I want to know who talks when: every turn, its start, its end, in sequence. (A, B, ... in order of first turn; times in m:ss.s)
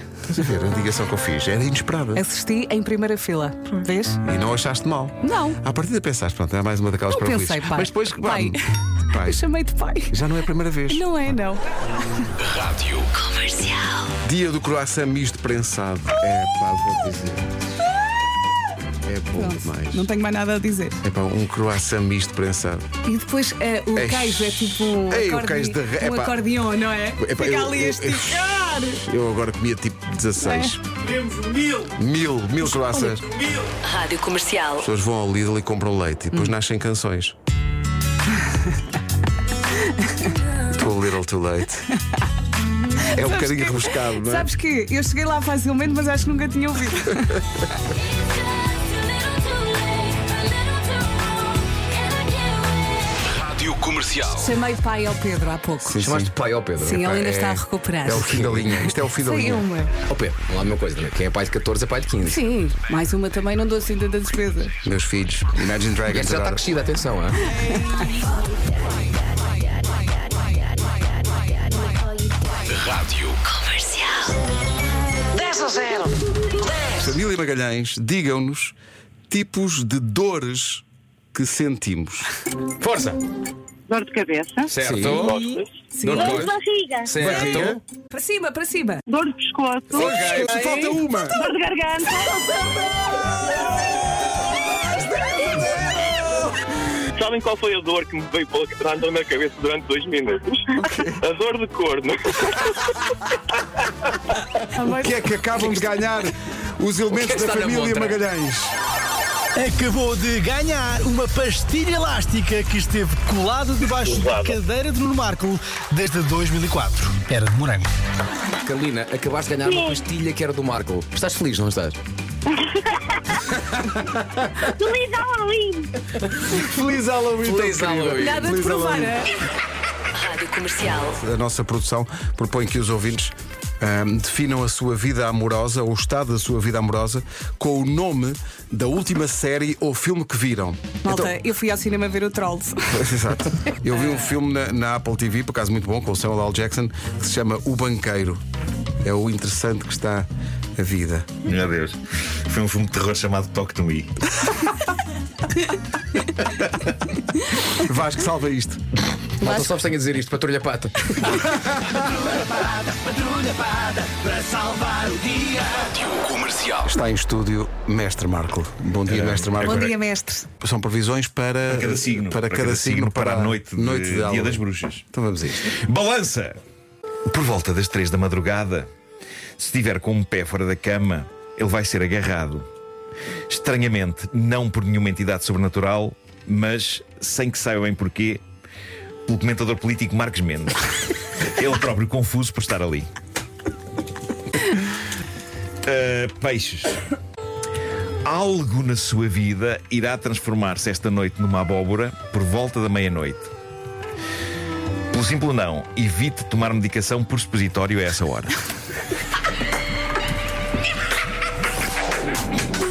0:00.3-0:02.2 A
0:02.1-0:04.2 B
0:04.2-0:09.4 A
0:05.2-0:05.6 B
0:07.1-0:10.1 B
0:10.1-0:11.1 A
0:10.9-0:12.3 B
0:12.4-0:13.0 C
0:14.2-0:17.5 A
0:19.0-0:20.1 A
0:19.3-0:21.0 B
0:21.0-0:22.8 A
0:23.0-0:29.0 B
0:23.9-0:26.4 A
0:27.2-0:30.8 A
0:30.4-0:30.7 B
0:31.1-0:31.9 D
0:31.8-0:33.3 A
0:33.8-0:34.8 E
0:34.8-0:37.3 A
0:40.7-0:41.9 A
0:43.1-0:47.4 B
0:43.1-0:44.5 A
0:53.4-0:54.4 C
0:54.3-0:56.0 B
0:55.8-0:59.7 A
0:55.9-0:57.1 F
0:56.8-0:58.3 B
0:58.2-0:58.8 F
0:59.1-0:59.9 B
1:00.1-1:02.4 F
1:02.2-1:04.7 B
1:04.8-1:06.7 A
1:06.1-1:07.4 F
1:12.8-1:13.3 C
1:15.4-1:16.1 F
1:16.9-1:18.8 A
1:19.3-1:22.3 A
1:22.8-1:23.2 F
1:23.9-1:24.7 G
1:24.7-1:27.8 F
1:24.8-1:25.2 A
1:25.2-1:26.4 B
1:25.2-1:25.6 H
1:26.2-1:27.1 I
1:27.2-1:27.8 A
1:28.1-1:29.0 B
1:29.1-1:30.4 G
1:29.9-1:30.9 F
1:30.0-1:31.4 A
1:31.3-1:32.3 G
1:37.2-1:40.6 H
1:40.8-1:41.1 A
1:41.2-1:42.8 H
1:44.7-1:45.2 B
1:44.8-1:48.7 A
1:47.1-1:48.2 F
1:49.5-1:57.9 D
1:58.6-2:02.0 F
1:59.6-1:59.9 I
2:04.8-2:05.9 I
2:06.5-2:09.3 A
2:07.4-2:08.6 F
2:08.2-2:09.3 B
2:10.2-2:11.2 E
2:11.1-2:21.0 A
2:21.0-2:23.0 B
2:22.9-2:28.4 A
2:29.0-2:31.3 A
2:31.4-2:34.3 J
2:37.7-2:38.8 A
2:39.4-2:41.6 F
2:42.9-2:45.6 D
2:45.8-2:46.8 C
2:46.8-2:49.9 A
2:49.1-2:50.0 J
2:49.6-2:50.5 B
2:50.6-2:55.8 A
2:51.7-2:55.0 J
2:55.6-2:56.6 J
2:57.3-2:58.9 J
2:59.6-3:02.6 J
3:03.5-3:08.4 J
3:09.3-3:13.1 J
3:15.8-3:16.9 J
3:18.2-3:23.5 J
3:25.1-3:28.5 J